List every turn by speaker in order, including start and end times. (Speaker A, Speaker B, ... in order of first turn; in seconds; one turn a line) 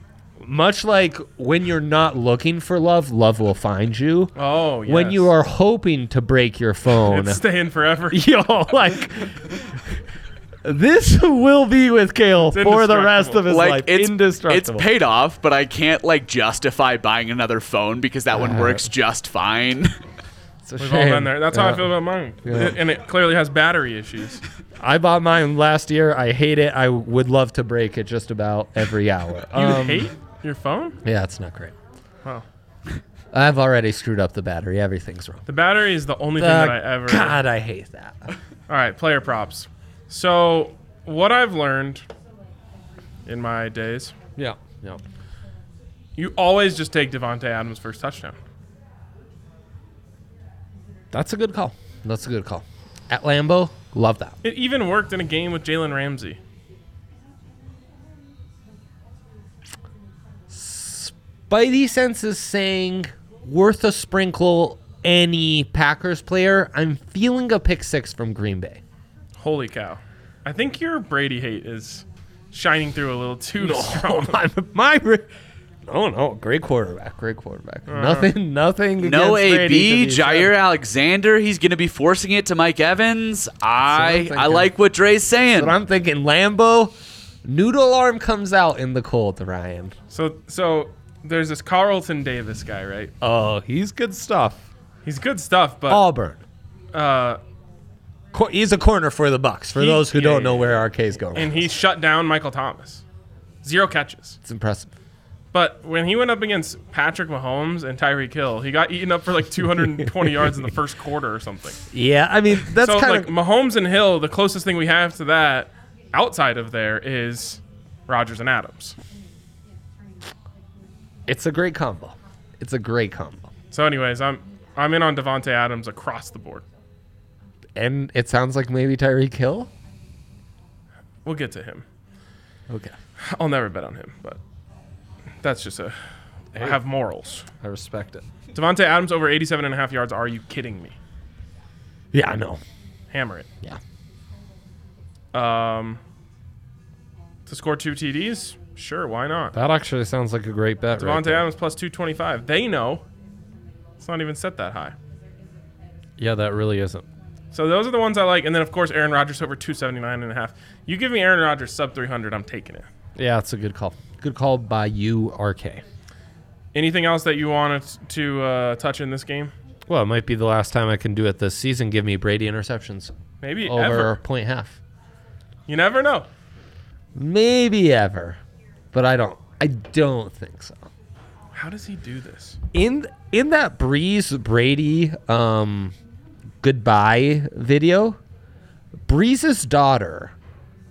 Speaker A: 0.4-4.3
Speaker B: 4.3-5.3
Speaker A: 4.8-7.4
Speaker B: 7.0-8.2
Speaker A: 8.1-10.0
Speaker A: 10.6-14.9
Speaker B: 12.5-13.4
Speaker C: 13.5-19.9
Speaker A: 18.3-18.9
Speaker A: 20.6-22.8
Speaker B: 20.8-24.4
Speaker A: 24.8-30.1
Speaker B: 29.5-31.0
Speaker A: 31.0-31.7
Speaker A: 33.3-35.4
Speaker B: 35.5-37.4
Speaker A: 36.4-38.3
Speaker B: 38.7-42.0
Speaker B: 43.2-44.1
Speaker A: 44.4-45.0
Speaker B: 46.2-48.4
Speaker A: 51.1-54.4
Speaker B: 54.4-56.4
Speaker A: 60.5-68.8
Speaker B: 69.4-74.4
Speaker A: 73.6-75.3
Speaker A: 75.8-80.5
Speaker B: 77.9-78.3
Speaker C: 79.0-85.8
Speaker A: 83.9-84.7
Speaker A: 85.6-86.9
Speaker A: 87.4-89.9
Speaker B: 90.1-93.1
Speaker A: 93.2-94.7
Speaker B: 95.0-96.0
Speaker A: 95.9-96.4
Speaker B: 96.9-97.4
Speaker A: 98.3-101.7
Speaker B: 99.8-103.0
Speaker B: 103.6-104.4
Speaker A: 104.4-104.9
Speaker B: 105.5-111.8
Speaker A: 110.0-110.5
Speaker A: 111.9-113.3
Speaker B: 112.6-119.0
Speaker A: 121.3-123.5
Speaker B: 123.7-126.6
Speaker A: 127.8-129.7
Speaker B: 131.2-131.8
Speaker A: 132.7-132.9
Speaker B: 133.2-134.4
Speaker B: 135.4-135.9
Speaker B: 136.5-137.5
Speaker A: 137.6-138.2
Speaker B: 138.5-141.0
Speaker A: 142.1-142.6
Speaker B: 143.1-143.5
Speaker B: 145.3-146.0
Speaker B: 147.5-149.5
Speaker A: 149.5-151.4
Speaker B: 150.9-153.0
Speaker B: 154.0-154.9
Speaker A: 156.2-157.1
Speaker B: 157.5-162.9
Speaker A: 163.2-165.8
Speaker B: 166.7-169.5
Speaker A: 169.9-174.8
Speaker B: 173.4-174.2
Speaker B: 175.7-176.3
Speaker A: 177.1-178.4
Speaker A: 178.9-180.9
Speaker B: 181.5-182.6
Speaker A: 182.7-185.9
Speaker A: 186.6-188.2
Speaker A: 189.0-190.3